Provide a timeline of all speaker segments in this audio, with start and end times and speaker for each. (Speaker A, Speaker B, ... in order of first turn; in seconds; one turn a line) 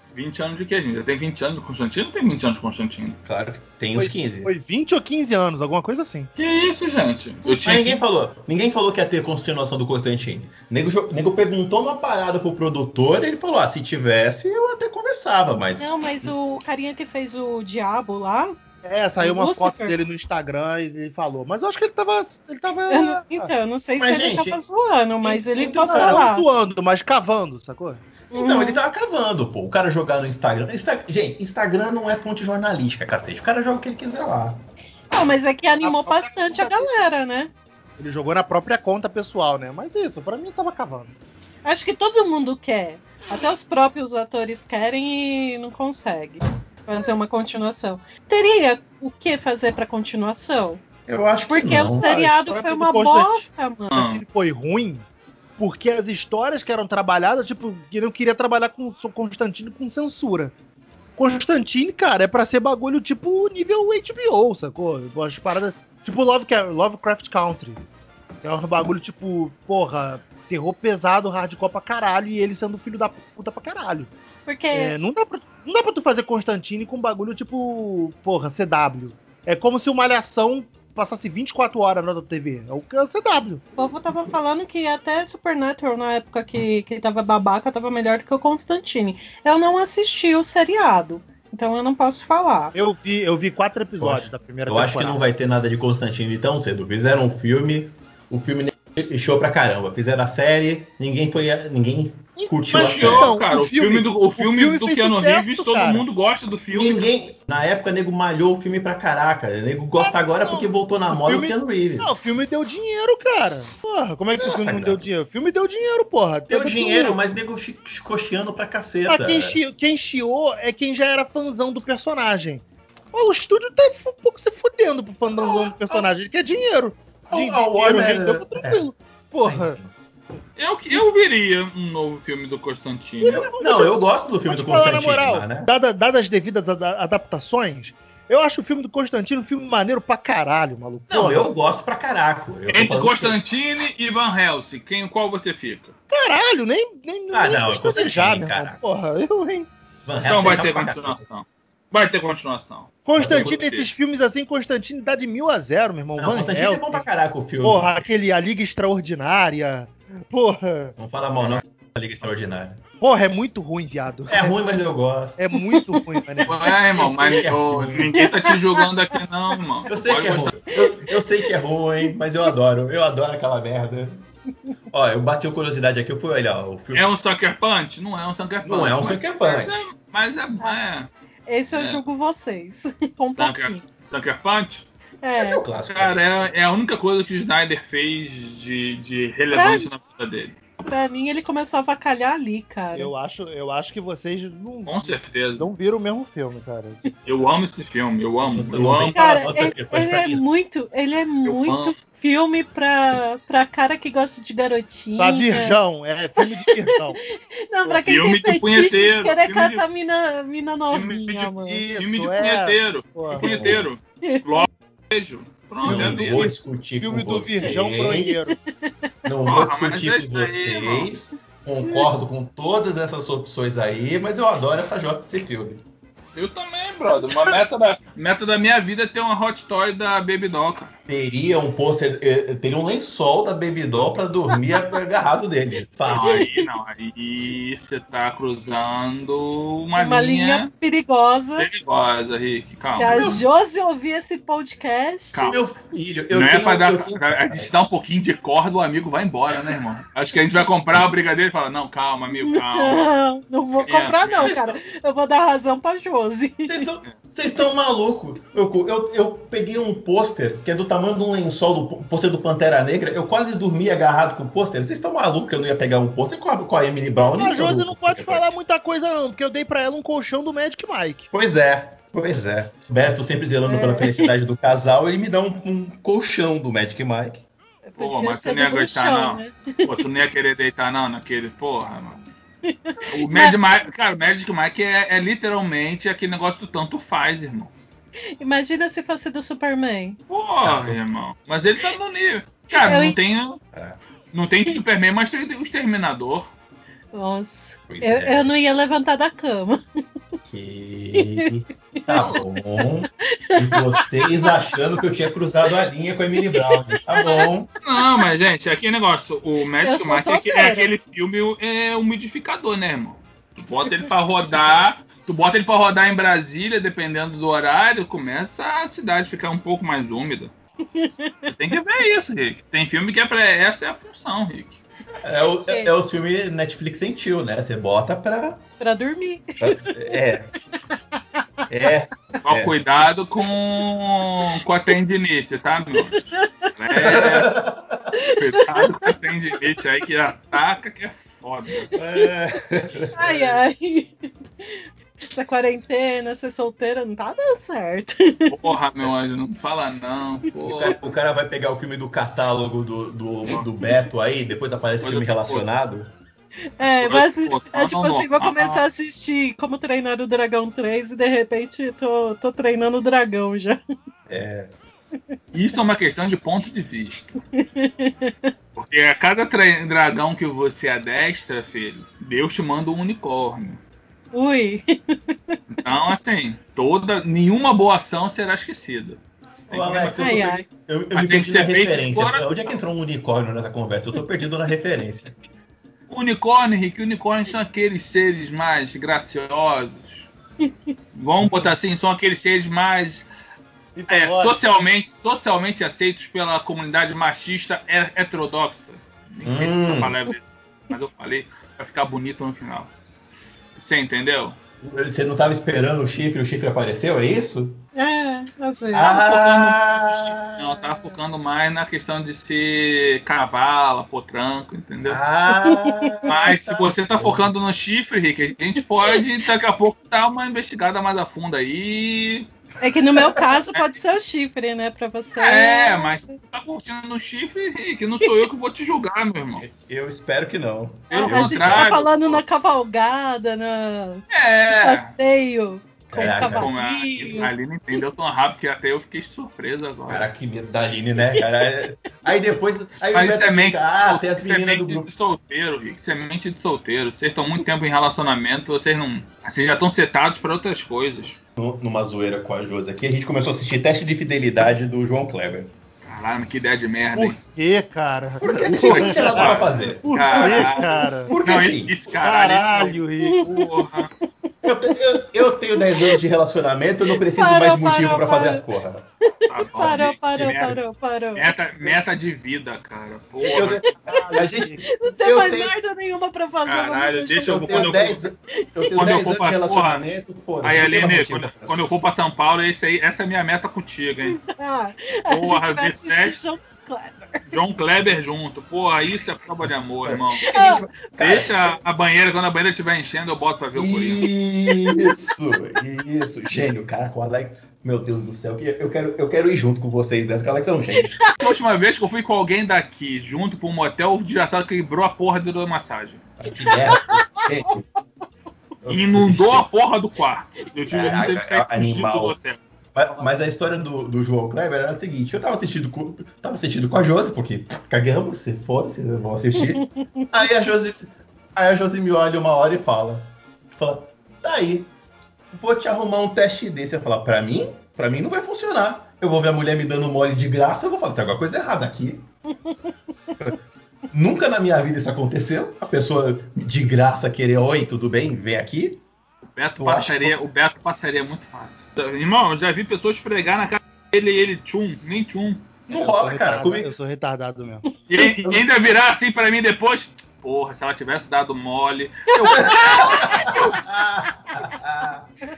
Speaker A: 0.1-3.2
Speaker B: 3.2-4.5
Speaker C: 3.9-6.3
Speaker A: 6.4-8.0
Speaker B: 7.6-16.3
Speaker D: 15.8-18.6
Speaker C: 18.8-23.5
Speaker D: 19.2-19.9
Speaker D: 22.9-26.4
Speaker B: 24.0-24.6
Speaker B: 25.2-26.2
Speaker C: 25.9-28.0
Speaker D: 28.3-28.8
Speaker B: 28.3-34.6
Speaker D: 35.1-37.5
Speaker A: 35.8-36.9
Speaker C: 36.5-36.8
Speaker C: 38.0-41.1
Speaker D: 41.6-50.8
Speaker B: 51.1-52.0
Speaker D: 51.5-54.0
Speaker C: 51.9-55.0
Speaker A: 53.9-54.2
Speaker C: 55.6-60.5
Speaker C: 61.1-67.8
Speaker C: 68.4-74.1
Speaker D: 74.5-75.0
Speaker C: 74.7-83.7
Speaker D: 83.8-92.7
Speaker C: 92.7-95.2
Speaker B: 94.0-103.3
Speaker C: 102.3-106.0
Speaker A: 102.7-107.0
Speaker B: 106.7-112.3
Speaker C: 110.0-117.2
Speaker B: 114.4-115.0
Speaker B: 116.5-119.6
Speaker C: 119.1-129.8
Speaker B: 125.3-126.1
Speaker B: 127.3-128.8
Speaker B: 129.4-129.9
Speaker A: 130.6-133.5
Speaker C: 133.2-133.9
Speaker B: 133.2-135.7
Speaker C: 134.5-141.5
Speaker B: 141.1-143.4
Speaker A: 142.7-145.9
Speaker C: 146.1-149.7
Speaker B: 147.3-148.8
Speaker B: 150.0-151.2
Speaker A: 150.2-153.9
Speaker C: 153.0-157.1
Speaker B: 153.2-153.6
Speaker B: 156.2-158.0
Speaker C: 157.6-160.9
Speaker B: 161.0-162.8
Speaker C: 163.0-164.6
Speaker B: 164.3-165.4
Speaker C: 165.4-166.7
Speaker D: 165.7-166.0
Speaker A: 166.4-170.6
Speaker B: 166.9-168.2
Speaker D: 168.2-168.9
Speaker B: 169.9-174.2
Speaker B: 174.9-177.1
Speaker A: 176.9-181.1
Speaker B: 178.6-179.8
Speaker D: 181.5-183.8
Speaker A: 181.7-182.0
Speaker A: 183.3-184.9
Speaker D: 185.2-185.6
Speaker B: 185.4-186.2
Speaker A: 185.9-190.6
Speaker D: 189.5-189.9
Speaker D: 190.8-193.1
Speaker C: 192.9-197.1
Speaker A: 194.8-195.7
Speaker A: 197.2-199.2
Speaker B: 198.4-200.4
Speaker D: 199.1-205.8
Speaker A: 201.4-201.9
Speaker C: 205.2-207.2
Speaker D: 206.4-211.8
Speaker A: 208.0-209.8
Speaker A: 210.9-216.5
Speaker C: 211.6-213.5
Speaker B: 213.3-213.9
Speaker D: 214.2-214.6
Speaker B: 215.8-218.3
Speaker C: 215.8-216.2
Speaker C: 217.0-218.6
Speaker D: 218.1-219.1
Speaker B: 219.2-225.8
Speaker A: 219.4-221.1
Speaker D: 221.8-222.1
Speaker A: 226.3-230.9
Speaker B: 231.1-236.5
Speaker D: 236.1-236.7
Speaker A: 236.1-240.7
Speaker D: 240.0-241.7
Speaker A: 241.6-243.4
Speaker D: 242.9-245.6
Speaker B: 243.2-243.4
Speaker B: 245.5-247.8
Speaker A: 246.3-253.1
Speaker B: 249.5-249.8
Speaker D: 252.4-256.8
Speaker A: 253.8-254.5
Speaker B: 254.3-254.8
Speaker B: 256.7-268.6
Speaker C: 267.4-271.3
Speaker B: 271.3-277.4
Speaker D: 273.6-274.3
Speaker D: 277.8-279.9
Speaker A: 278.0-282.2
Speaker D: 282.6-283.6
Speaker A: 283.1-287.7
Speaker D: 288.4-290.2
Speaker A: 290.3-293.6
Speaker B: 290.6-291.0
Speaker D: 292.7-293.2
Speaker B: 293.7-294.0
Speaker A: 294.3-296.5
Speaker D: 297.1-299.8
Speaker B: 297.9-298.5
Speaker B: 300.5-307.7
Speaker D: 301.1-302.4
Speaker D: 303.4-304.5
Speaker D: 306.4-308.2
Speaker A: 307.8-320.5
Speaker D: 309.8-310.9
Speaker D: 320.9-321.5
Speaker A: 321.5-324.8
Speaker B: 325.2-328.6
Speaker D: 328.8-329.9
Speaker B: 329.6-330.5
Speaker B: 331.7-332.8
Speaker A: 332.4-337.6
Speaker D: 336.1-336.7
Speaker B: 336.9-338.1
Speaker D: 338.1-339.1
Speaker A: 338.3-341.9
Speaker D: 341.8-342.3
Speaker B: 341.9-343.6
Speaker D: 343.1-348.7
Speaker A: 348.5-350.9
Speaker B: 350.6-356.1
Speaker A: 355.0-355.7
Speaker D: 356.8-363.8
Speaker A: 356.9-358.8
Speaker B: 364.3-364.7
Speaker A: 365.5-367.3
Speaker D: 367.5-368.5
Speaker A: 368.8-373.8
Speaker D: 374.3-375.6
Speaker A: 375.7-380.4
Speaker B: 379.7-385.3
Speaker D: 380.2-380.6
Speaker A: 381.1-382.8
Speaker A: 386.1-390.3
Speaker D: 390.6-390.9
Speaker A: 391.1-393.3
Speaker C: 393.9-394.6
Speaker A: 394.1-402.9
Speaker B: 399.4-400.1
Speaker A: 403.8-404.6
Speaker B: 404.8-407.8
Speaker D: 407.9-409.2
Speaker B: 408.9-410.8
Speaker A: 408.9-415.2
Speaker B: 415.0-417.5
Speaker D: 415.5-416.3
Speaker A: 416.3-422.5
Speaker D: 422.8-426.3
Speaker A: 425.4-429.6
Speaker B: 429.6-431.9
Speaker D: 431.1-437.5
Speaker A: 431.1-432.4
Speaker A: 434.3-435.1
Speaker B: 436.1-436.7
Speaker A: 436.2-440.3
Speaker B: 440.1-445.1
Speaker D: 441.2-441.6
Speaker A: 443.1-451.4
Speaker B: 451.6-455.7
Speaker A: 456.0-457.4
Speaker C: 457.1-461.3
Speaker B: 458.4-461.9
Speaker A: 458.8-464.1
Speaker C: 462.2-463.4
Speaker D: 463.2-463.8
Speaker B: 464.6-469.1
Speaker D: 465.8-466.2
Speaker D: 467.3-468.6
Speaker D: 469.2-471.5
Speaker A: 469.5-470.8
Speaker B: 469.8-470.6
Speaker A: 471.3-473.9
Speaker D: 473.5-474.4
Speaker B: 473.5-475.7
Speaker C: 474.1-474.8
Speaker D: 475.0-478.9
Speaker A: 476.6-478.3
Speaker B: 477.4-481.8
Speaker A: 478.9-480.0
Speaker A: 480.6-484.4
Speaker D: 484.3-487.6
Speaker A: 485.3-486.4
Speaker A: 487.4-490.5
Speaker B: 490.0-491.7
Speaker D: 490.5-490.8
Speaker A: 491.1-494.3
Speaker B: 493.7-501.1
Speaker D: 494.7-495.1
Speaker D: 501.0-501.4
Speaker A: 501.4-506.2
Speaker B: 506.4-507.8
Speaker D: 506.7-507.8
Speaker B: 508.8-509.7
Speaker A: 508.9-512.6
Speaker B: 510.9-512.4
Speaker B: 512.9-524.9
Speaker D: 519.6-520.3
Speaker B: 525.5-532.3
Speaker D: 532.6-533.4
Speaker B: 534.1-539.0
Speaker A: 539.4-545.7
Speaker B: 539.8-540.4
Speaker B: 545.9-546.9
Speaker C: 545.9-547.8
Speaker A: 548.1-553.8
Speaker D: 552.3-553.4
Speaker B: 552.5-555.3